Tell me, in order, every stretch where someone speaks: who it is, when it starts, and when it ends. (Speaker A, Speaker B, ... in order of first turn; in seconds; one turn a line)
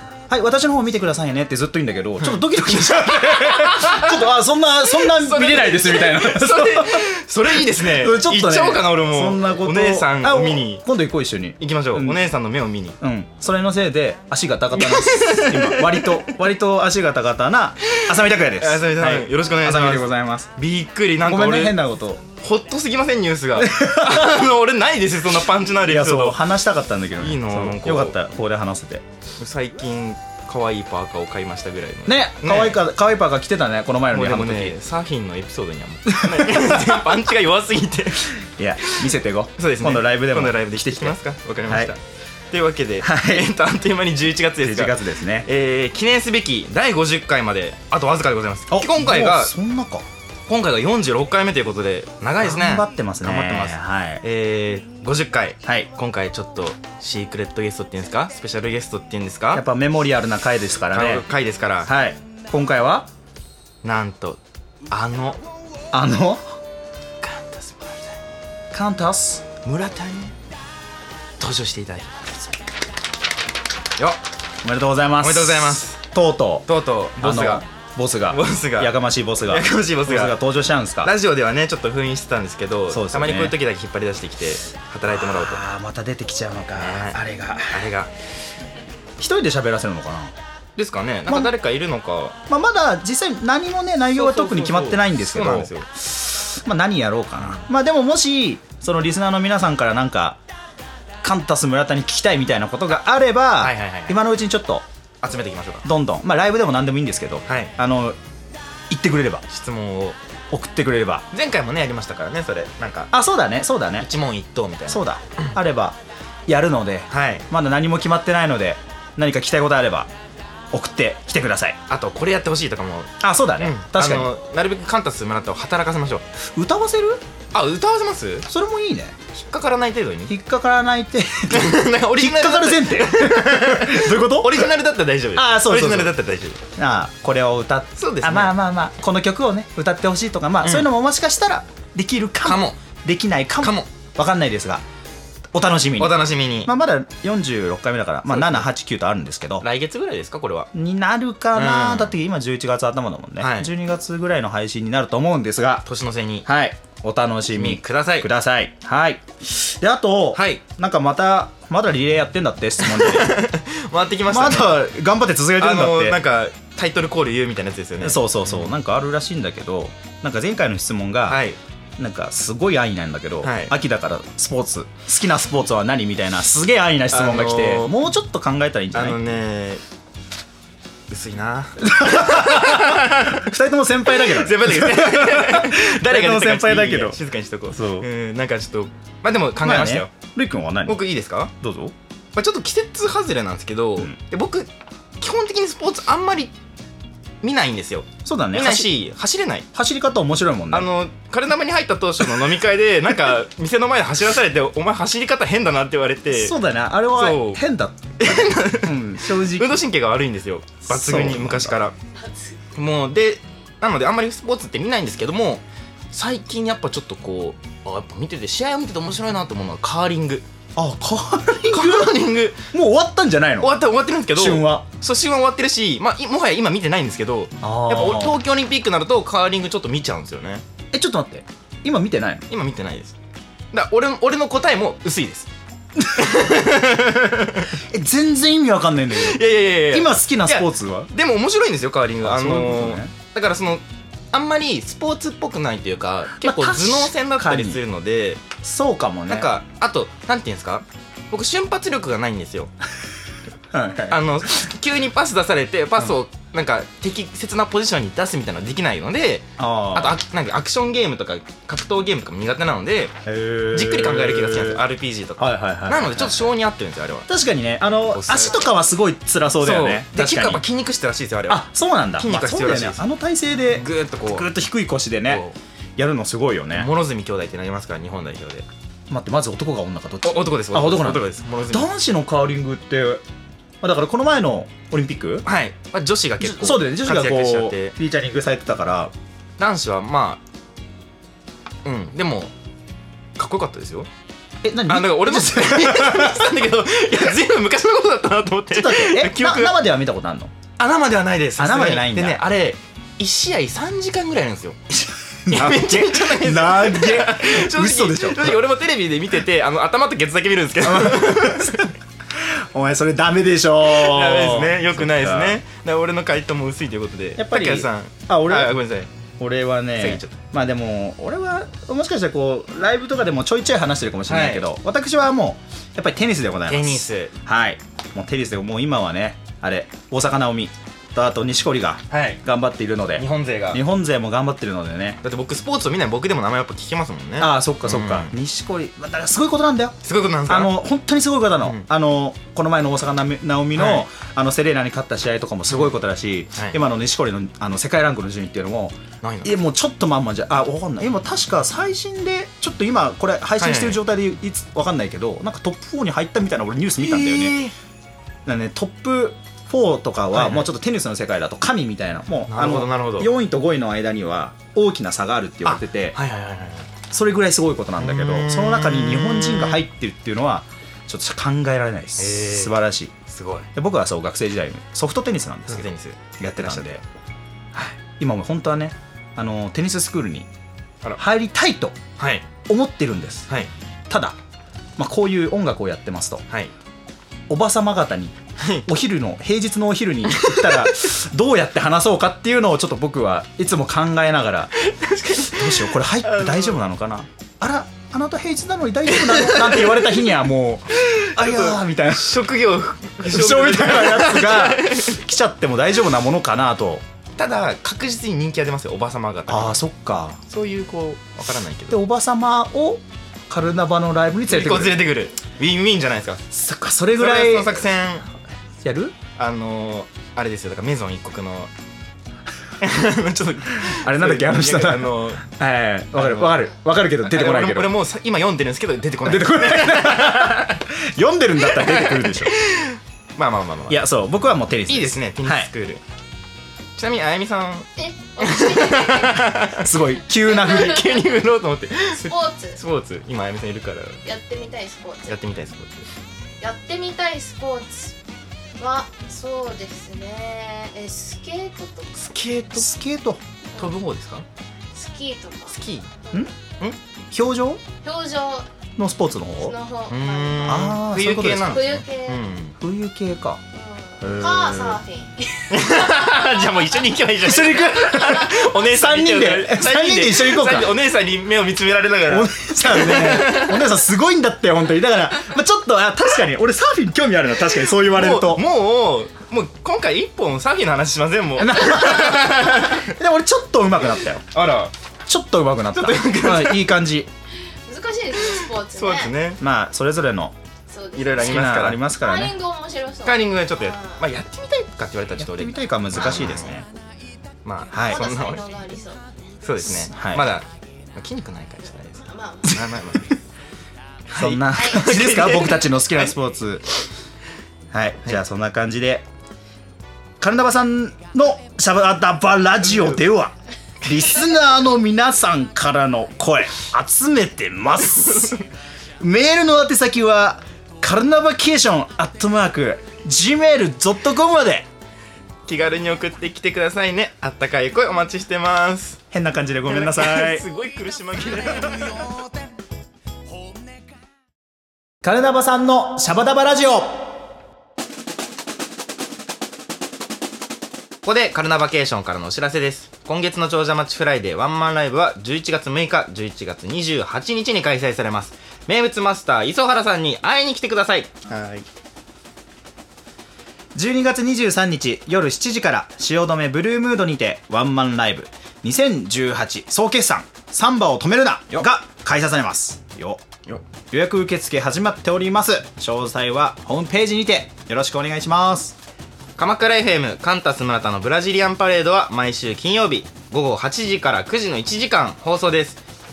Speaker A: 0.3-12.2
Speaker B: 2.2-4.3
Speaker B: 4.9-10.8
Speaker B: 11.6-13.0
Speaker A: 13.0-20.5
Speaker B: 14.7-16.2
Speaker B: 18.1-21.8
Speaker A: 21.2-22.2
Speaker B: 22.4-26.4
Speaker A: 23.6-24.4
Speaker A: 25.8-29.0
Speaker B: 27.2-28.2
Speaker B: 29.4-32.8
Speaker A: 32.1-34.8
Speaker B: 34.1-38.3
Speaker A: 36.1-37.0
Speaker A: 38.6-41.9
Speaker B: 38.9-49.5
Speaker A: 43.0-43.5
Speaker A: 44.6-45.5
Speaker A: 48.7-50.0
Speaker B: 50.5-59.6
Speaker A: 52.4-54.2
Speaker A: 59.5-61.2
Speaker B: 60.9-61.9
Speaker A: 61.9-63.1
Speaker B: 63.8-65.4
Speaker A: 65.9-66.4
Speaker B: 67.2-68.2
Speaker A: 68.7-69.5
Speaker B: 69.6-70.3
Speaker B: 71.4-72.4
Speaker A: 74.6-81.1
Speaker B: 75.2-76.0
Speaker B: 76.7-77.6
Speaker B: 78.3-80.4
Speaker B: 81.0-85.6
Speaker A: 82.9-83.6
Speaker A: 85.1-87.9
Speaker B: 86.8-88.1
Speaker A: 89.2-90.3
Speaker B: 90.8-92.4
Speaker A: 92.5-100.4
Speaker B: 94.1-95.9
Speaker B: 97.4-97.7
Speaker A: 101.2-104.8
Speaker B: 103.6-104.2
Speaker B: 105.2-105.9
Speaker A: 105.8-108.2
Speaker B: 107.5-107.7
Speaker A: 108.9-109.5
Speaker B: 109.5-110.2
Speaker A: 110.5-111.3
Speaker B: 111.3-113.1
Speaker A: 113.1-114.1
Speaker B: 114.0-115.5
Speaker A: 114.9-120.1
Speaker B: 117.1-117.5
Speaker A: 120.7-121.8
Speaker B: 121.9-126.2
Speaker A: 123.2-124.3
Speaker A: 126.5-127.2
Speaker B: 127.5-128.5
Speaker A: 128.5-129.2
Speaker B: 129.3-130.3
Speaker A: 130.3-134.7
Speaker B: 131.5-136.6
Speaker A: 135.3-136.2
Speaker A: 136.7-144.8
Speaker B: 138.0-138.5
Speaker B: 140.6-140.9
Speaker B: 142.4-142.8
Speaker B: 143.6-143.9
Speaker A: 145.5-149.7
Speaker B: 146.0-146.7
Speaker B: 148.3-148.7
Speaker B: 149.6-150.7
Speaker A: 150.7-155.8
Speaker B: 151.5-152.2
Speaker B: 153.4-153.7
Speaker B: 155.8-156.5
Speaker A: 156.4-163.5
Speaker B: 157.5-158.3
Speaker B: 160.3-160.6
Speaker B: 162.8-164.9
Speaker A: 164.3-166.2
Speaker B: 165.6-168.7
Speaker A: 168.0-171.4
Speaker B: 171.3-171.6
Speaker A: 172.0-179.2
Speaker B: 173.4-173.8
Speaker B: 177.1-177.9
Speaker B: 178.9-179.8
Speaker B: 181.1-183.5
Speaker A: 181.8-187.2
Speaker B: 184.1-190.1
Speaker A: 187.7-188.1
Speaker A: 189.6-191.1
Speaker B: 190.9-191.5
Speaker A: 191.6-191.9
Speaker B: 192.3-196.6
Speaker B: 197.4-199.7
Speaker A: 198.2-198.9
Speaker A: 199.7-200.9
Speaker B: 200.7-206.6
Speaker A: 206.3-209.8
Speaker B: 207.1-207.6
Speaker B: 208.2-211.9
Speaker A: 210.9-211.8
Speaker B: 212.7-220.4
Speaker A: 220.8-222.2
Speaker B: 221.6-222.7
Speaker A: 222.7-223.8
Speaker B: 223.6-230.6
Speaker A: 224.3-224.9
Speaker A: 227.6-228.4
Speaker A: 230.9-232.4
Speaker B: 232.5-233.2
Speaker B: 233.7-235.5
Speaker A: 236.0-236.3
Speaker B: 236.2-237.7
Speaker A: 237.8-241.1
Speaker B: 239.1-248.4
Speaker A: 242.2-243.1
Speaker A: 246.4-247.8
Speaker A: 248.6-249.5
Speaker B: 249.3-252.7
Speaker A: 253.7-254.2
Speaker B: 254.1-263.1
Speaker A: 259.6-260.2
Speaker A: 263.2-264.8
Speaker B: 263.7-267.3
Speaker A: 265.4-266.5
Speaker A: 267.3-270.6
Speaker B: 268.1-268.7
Speaker B: 269.6-273.0
Speaker A: 271.5-275.4
Speaker B: 273.7-274.5
Speaker B: 275.2-275.6
Speaker A: 276.0-276.9
Speaker B: 276.7-278.7
Speaker A: 279.1-283.2
Speaker B: 280.2-281.9
Speaker A: 283.8-285.5
Speaker B: 285.4-287.9
Speaker A: 286.4-289.1
Speaker B: 289.6-290.4
Speaker B: 291.8-292.5
Speaker B: 293.4-294.1
Speaker A: 294.6-296.5
Speaker B: 294.9-299.8
Speaker A: 298.7-300.5
Speaker B: 300.8-304.8
Speaker A: 301.6-302.4
Speaker A: 305.0-308.6
Speaker B: 305.5-311.9
Speaker A: 310.9-315.6
Speaker B: 313.8-319.1
Speaker A: 317.4-318.8
Speaker A: 319.4-335.2
Speaker B: 320.0-320.4
Speaker B: 324.3-324.7
Speaker B: 326.7-327.3
Speaker B: 332.1-332.4
Speaker B: 333.2-333.8
Speaker B: 335.2-338.4
Speaker A: 337.4-357.6
Speaker B: 340.0-340.8
Speaker B: 343.8-344.1
Speaker B: 349.2-349.5
Speaker B: 353.6-354.0
Speaker B: 357.0-357.7
Speaker A: 358.5-366.2
Speaker B: 360.3-360.7
Speaker B: 362.5-363.3
Speaker B: 365.6-366.9
Speaker A: 367.1-373.1
Speaker B: 368.0-369.8
Speaker B: 372.2-373.7
Speaker A: 373.7-377.0
Speaker B: 375.7-377.0
Speaker A: 377.8-380.5
Speaker A: 381.2-382.0
Speaker B: 382.2-382.5
Speaker A: 382.7-383.5
Speaker A: 384.1-384.4
Speaker A: 385.0-386.4
Speaker A: 387.5-394.7
Speaker B: 388.6-388.9
Speaker B: 390.3-390.9
Speaker B: 394.8-396.8
Speaker A: 395.5-402.4
Speaker B: 399.1-400.3
Speaker B: 401.0-405.2
Speaker A: 403.2-407.0
Speaker B: 407.4-409.8
Speaker A: 409.5-410.4
Speaker B: 410.5-412.0
Speaker A: 411.9-415.0
Speaker B: 414.5-416.4
Speaker A: 416.5-417.9
Speaker B: 417.1-418.3
Speaker A: 418.8-419.1
Speaker B: 419.4-421.7
Speaker B: 422.8-425.4
Speaker A: 423.8-428.0
Speaker B: 426.1-430.8
Speaker A: 429.2-432.6
Speaker B: 431.6-434.0
Speaker A: 433.9-435.7
Speaker B: 434.9-436.0
Speaker B: 437.0-439.9
Speaker C: 438.0-441.4
Speaker A: 439.8-441.1
Speaker B: 440.5-444.2
Speaker C: 442.1-442.8
Speaker C: 444.2-445.4
Speaker B: 445.3-446.1
Speaker C: 446.6-448.2
Speaker C: 448.8-452.2
Speaker B: 452.2-452.9
Speaker A: 452.8-453.4
Speaker B: 453.8-454.5
Speaker C: 454.9-456.5
Speaker B: 455.7-456.1
Speaker A: 457.3-457.8
Speaker C: 458.0-458.7
Speaker A: 459.0-459.8
Speaker C: 459.6-462.5
Speaker B: 460.1-462.8
Speaker A: 460.6-461.9
Speaker A: 462.8-463.6
Speaker C: 463.7-467.1
Speaker A: 464.2-465.0
Speaker B: 465.7-473.9
Speaker A: 467.4-471.0
Speaker C: 467.8-468.7
Speaker A: 472.3-478.6
Speaker B: 478.0-483.1
Speaker A: 481.6-484.4
Speaker B: 484.5-484.9
Speaker A: 485.3-487.3
Speaker B: 485.9-487.0
Speaker C: 487.9-489.4
Speaker B: 488.4-489.6
Speaker A: 489.6-490.6
Speaker C: 490.9-491.6
Speaker B: 491.1-492.0
Speaker A: 491.4-492.6
Speaker C: 492.1-494.3
Speaker B: 493.2-496.8
Speaker A: 495.4-496.9
Speaker B: 497.6-498.7
Speaker A: 497.9-498.3
Speaker C: 498.0-499.3
Speaker B: 499.6-503.3
Speaker A: 499.9-500.5
Speaker C: 502.2-502.9
Speaker B: 504.3-506.3
Speaker A: 504.3-506.9
Speaker C: 504.7-505.1
Speaker A: 507.9-509.2
Speaker A: 510.4-518.6
Speaker A: 519.2-524.9
Speaker B: 525.7-529.2
Speaker A: 529.3-530.6
Speaker B: 529.9-532.4
Speaker A: 535.2-537.3
Speaker B: 541.2-551.9
Speaker A: 554.0-563.4
Speaker A: 564.1-569.0
Speaker B: 569.6-576.0